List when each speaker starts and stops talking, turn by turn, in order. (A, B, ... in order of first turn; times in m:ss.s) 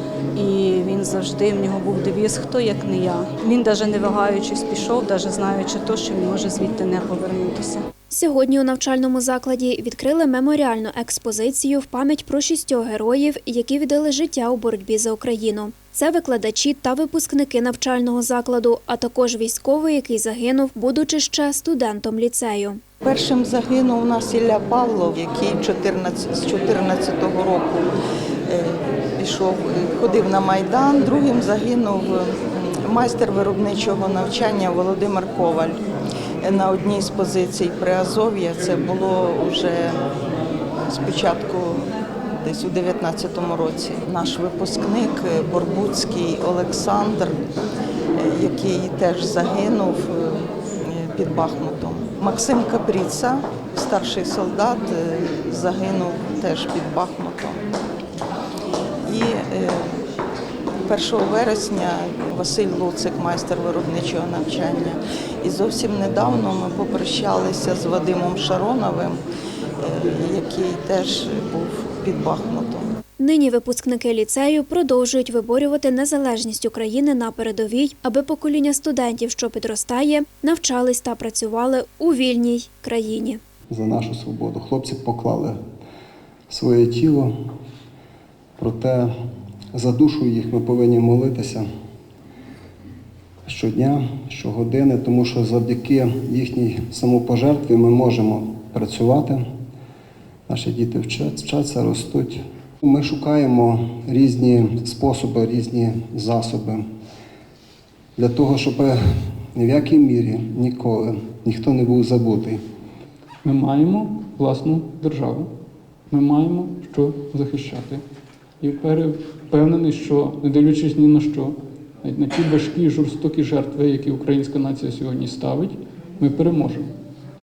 0:00.3-0:07.8 A
0:08.1-0:22.8 B
0:23.0-0:27.8 C
0:28.5-0:35.8 C
0:36.4-0:40.0 C
0:40.9-0:41.9 C
0:42.4-0:47.4 C
0:48.2-0:57.6 C
0:59.0-0:59.9 C
1:00.9-1:09.2 C
1:09.8-1:12.9 C
1:13.2-1:23.4 B
1:23.7-1:25.6 D
1:26.5-1:27.3 D
1:28.6-1:29.1 D
1:29.7-1:31.6 D
1:33.4-1:39.4 D
1:40.5-1:46.8 D
1:48.2-1:49.0 D
1:49.5-1:52.6 D
1:53.4-1:55.5 E
1:56.1-1:58.0 E
1:58.6-2:06.8 E